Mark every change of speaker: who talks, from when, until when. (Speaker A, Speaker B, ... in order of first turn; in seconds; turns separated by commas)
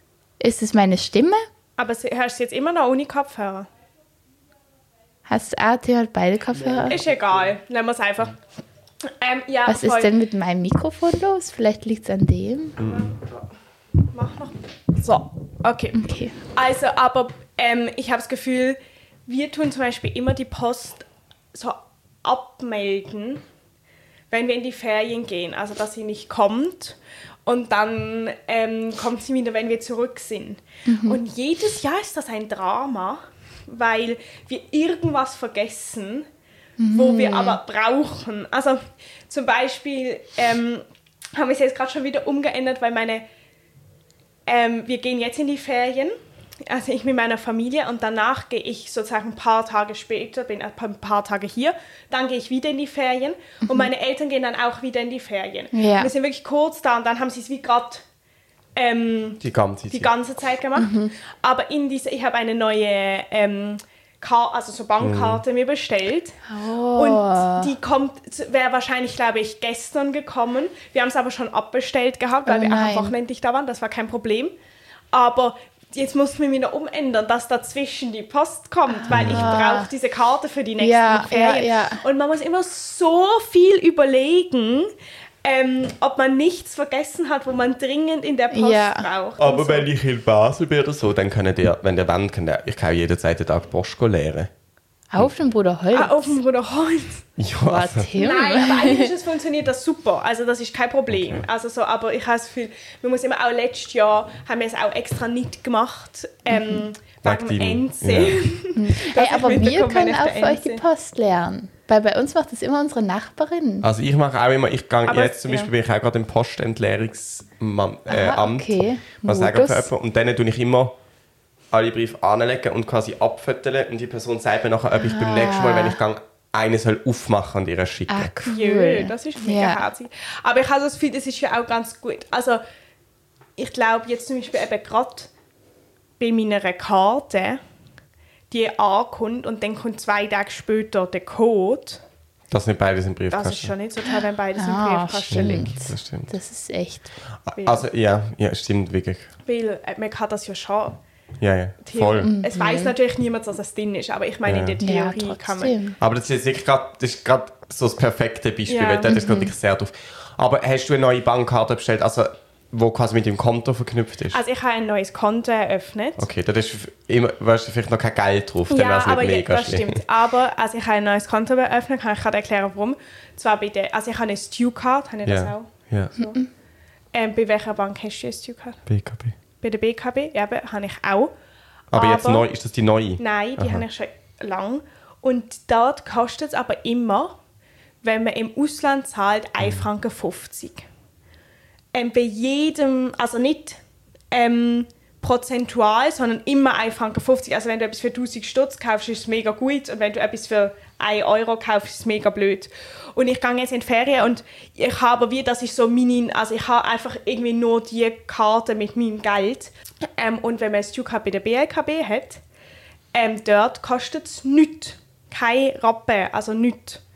Speaker A: 0.4-1.4, Speaker B: 1.8-3.7, Speaker A: 5.2-7.0, Speaker B: 6.9-8.4, Speaker B: 9.0-10.1, Speaker A: 9.7-12.8, Speaker C: 12.8-13.1, Speaker B: 12.8-13.2, Speaker B: 14.1-16.0, Speaker A: 15.9-16.4, Speaker B: 16.5-23.4, Speaker B: 24.3-36.3, Speaker A: 30.9-31.2, Speaker A: 36.8-37.6, Speaker B: 36.9-43.2, Speaker B: 44.5-58.0, Speaker A: 55.7-56.1, Speaker B: 58.8-66.4, Speaker C: 59.4-60.1, Speaker A: 60.8-61.1, Speaker C: 65.0-65.4, Speaker A: 66.5-67.7, Speaker B: 66.9-74.5, Speaker A: 72.5-73.1, Speaker B: 75.1-84.9, Speaker A: 78.9-79.9, Speaker C: 79.1-79.4, Speaker A: 80.8-82.0, Speaker B: 85.4-89.9, Speaker A: 88.5-89.1, Speaker C: 89.4-94.5, Speaker A: 95.1-96.4, Speaker B: 95.9-97.2, Speaker C: 97.4-98.1, Speaker A: 97.7-99.1, Speaker B: 98.2-110.8, Speaker C: 101.1-101.4, Speaker A: 106.5-106.9, Speaker C: 107.2-108.4, Speaker A: 108.8-113.9, Speaker C: 113.8-120.9, Speaker B: 115.1-115.7, Speaker A: 118.1-119.9, Speaker C: 121.7-128.3, Speaker A: 125.0-126.0, Speaker A: 128.1-129.8, Speaker B: 128.4-132.6, Speaker B: 133.6-135.3, Speaker B: 136.2-137.6, Speaker B: 138.5-142.0, Speaker C: 142.5-143.7, Speaker B: 143.3-145.8, Speaker A: 144.6-147.1, Speaker C: 145.3-146.3, Speaker C: 147.4-149.3, Speaker B: 147.6-147.8, Speaker B: 149.4-151.0, Speaker C: 151.4-152.3, Speaker B: 151.8-155.8, Speaker A: 152.2-152.9, Speaker C: 154.4-154.8, Speaker A: 154.8-156.0, Speaker C: 156.0-164.4, Speaker B: 158.7-159.2, Speaker A: 159.1-159.5, Speaker B: 164.3-166.2, Speaker C: 166.2-170.0, Speaker B: 168.7-176.4, Speaker C: 175.2-176.1, Speaker A: 176.2-176.5, Speaker B: 177.1-178.8, Speaker C: 178.9-179.3, Speaker B: 179.6-181.3, Speaker C: 181.9-183.8, Speaker B: 181.9-182.4, Speaker B: 183.2-187.4, Speaker B: 188.0-190.9, Speaker B: 191.9-193.8, Speaker B: 194.3-212.4, Speaker B: 213.1-217.0